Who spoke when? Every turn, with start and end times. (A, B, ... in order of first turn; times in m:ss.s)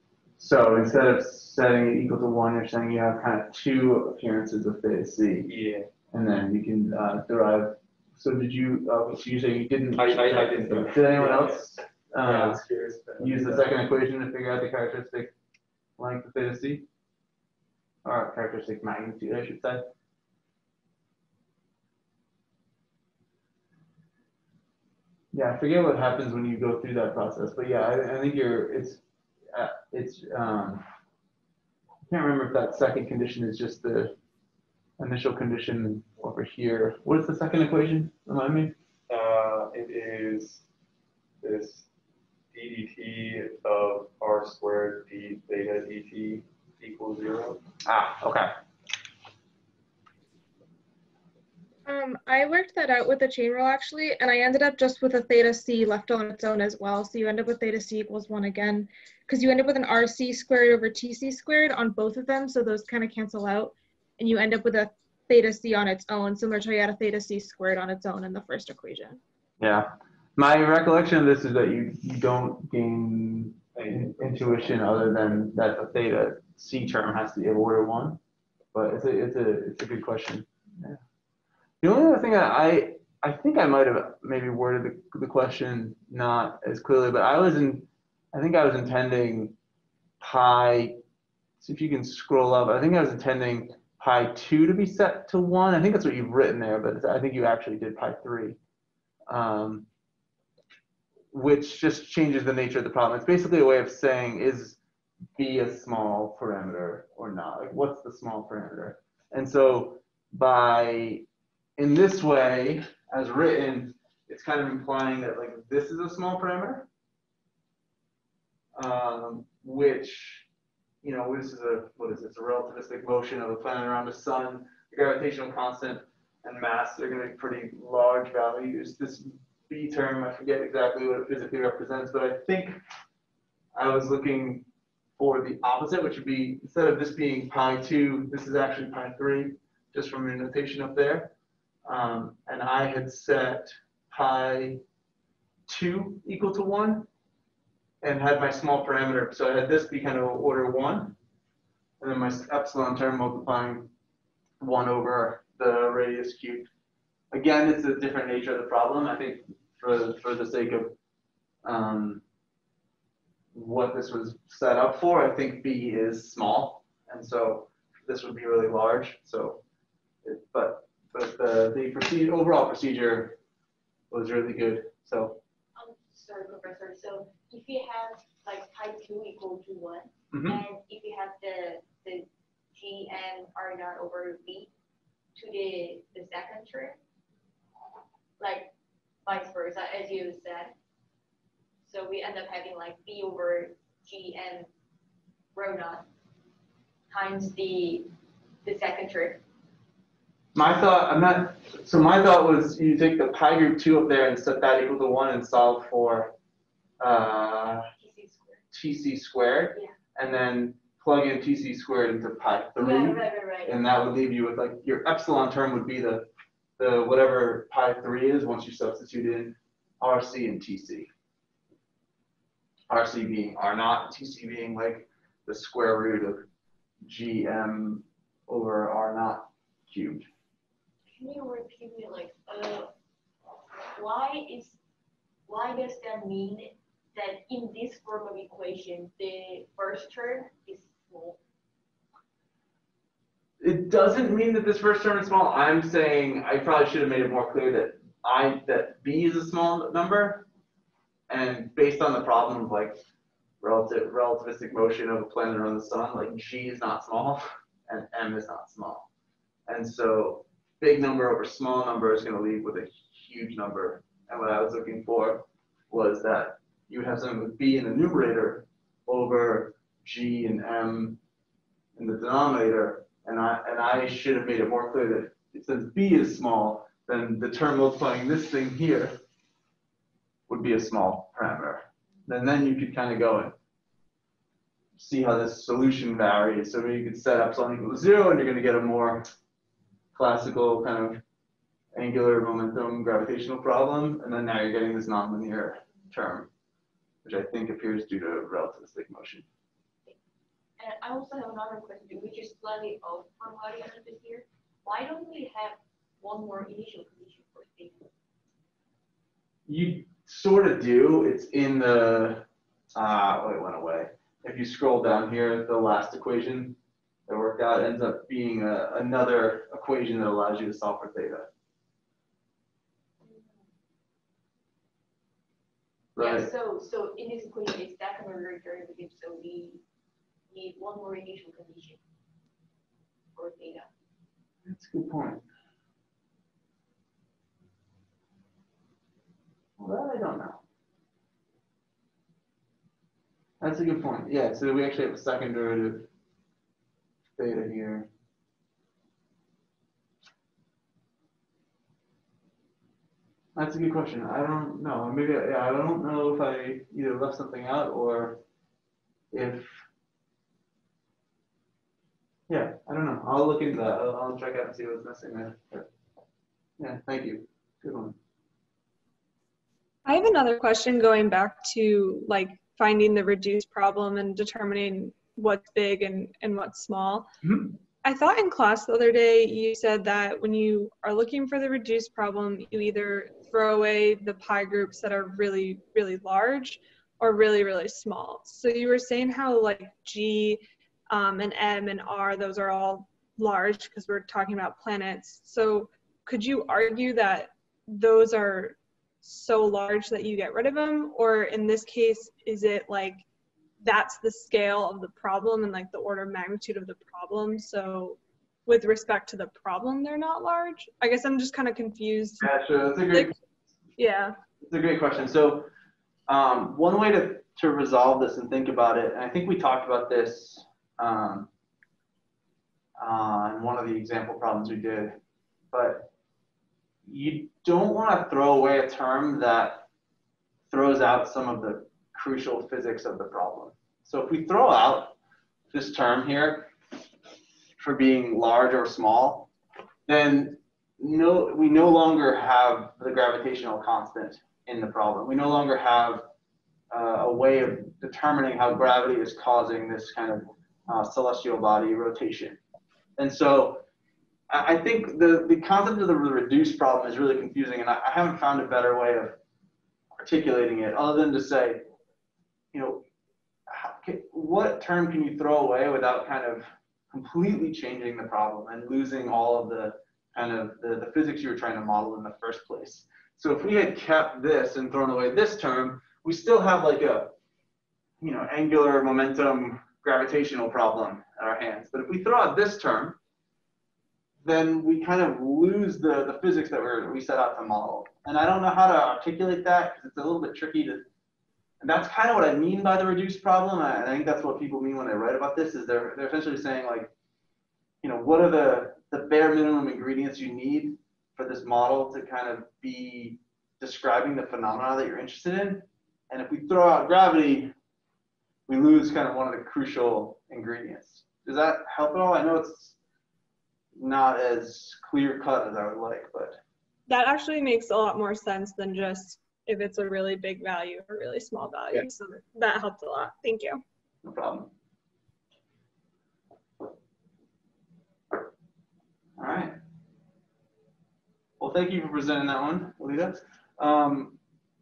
0:00.4-0:05.5 A
0:05.4-0:05.9 B
0:06.1-0:12.6 A
0:10.0-0:13.8 B
0:13.2-0:15.3 A
0:16.0-0:16.9 A
0:18.0-0:19.9 A
0:25.3-0:29.0 A
0:29.5-0:30.8 A
0:32.1-0:34.2 A
0:35.0-0:38.7 A
0:39.1-0:40.6 B
0:41.4-0:41.9 B
0:42.5-0:47.6 B
0:47.8-0:48.5 A
0:51.9-1:09.2 C
1:09.6-1:18.2 A
1:13.7-1:15.0 B
1:18.7-1:21.0 A
1:21.8-1:29.6 A
1:30.2-1:31.0 A
1:31.6-1:38.6 A
1:39.3-1:39.9 A
1:41.3-1:44.8 A
1:45.4-1:51.3 A
1:51.8-1:56.9 A
1:58.8-2:00.5 A
2:01.0-2:12.8 A
2:13.8-2:14.7 A
2:15.2-2:21.3 A
2:21.9-2:24.8 A
2:25.7-2:27.1 A
2:28.0-2:31.2 A
2:32.0-2:33.9 A
2:34.6-2:36.7 A
2:37.3-2:41.0 A
2:41.6-2:42.2 A
2:43.5-2:49.6 A
2:50.2-2:53.4 A
2:54.1-2:55.4 A
2:55.8-3:04.7 D
3:00.3-3:00.6 A
3:05.4-3:07.0 D
3:08.4-3:08.7 D
3:09.3-3:10.7 D
3:11.8-3:14.7 D
3:15.5-3:16.1 D
3:17.1-3:18.1 D
3:18.6-3:19.4 D
3:20.6-3:26.3 A
3:27.0-3:27.9 A
3:28.0-3:28.6 D
3:28.7-3:41.1 A
3:32.8-3:33.8 D
3:42.9-3:46.5 A
3:47.0-3:50.3 A
3:51.1-3:52.9 D
3:53.7-3:54.8 D
3:55.5-4:01.4 D
4:03.6-4:10.5 A
4:11.3-4:13.0 A
4:13.6-4:19.1 A
4:19.7-4:31.2 A
4:32.0-4:39.2 A
4:40.5-4:43.6 A
4:45.0-4:49.3 A
4:50.1-4:51.2 A
4:51.9-4:56.5 A
4:57.2-4:59.5 A
5:00.8-5:08.1 D
5:09.7-5:21.5 A
5:23.2-5:23.6 D
5:26.2-5:26.5 A
5:26.2-5:29.8 D
5:30.5-5:32.0 D
5:33.3-5:33.9 D
5:34.6-5:35.4 A
5:39.8-5:40.6 A
5:43.6-5:46.1 A
5:47.4-5:48.1 A
5:53.6-5:58.4 A
5:59.3-5:59.7 A
6:02.5-6:05.9 A
6:06.8-6:08.2 A
6:10.1-6:17.3 E
6:17.4-6:17.8 A
6:18.0-6:43.2 E
6:43.8-6:52.5 E
6:52.4-6:53.4 A
6:54.0-6:54.4 E
6:54.6-6:55.7 A
6:56.3-7:01.5 A
7:03.0-7:05.2 A
7:05.7-7:06.1 A
7:07.0-7:09.9 A
7:10.7-7:15.2 A
7:15.7-7:16.7 A
7:17.8-7:19.5 A
7:20.1-7:26.3 A
7:26.9-7:32.6 A
7:33.2-7:33.8 A
7:34.5-7:39.4 A
7:40.2-7:41.8 A
7:42.7-7:43.0 A
7:43.7-7:57.4 A
7:58.2-8:03.2 A
8:04.4-8:11.0 A
8:11.8-8:17.1 A
8:18.0-8:27.7 A
8:28.7-8:33.0 A
8:34.0-8:36.6 A
8:37.1-8:43.8 E
8:44.2-8:44.7 A
8:49.4-8:49.8 A
8:51.6-8:54.4 A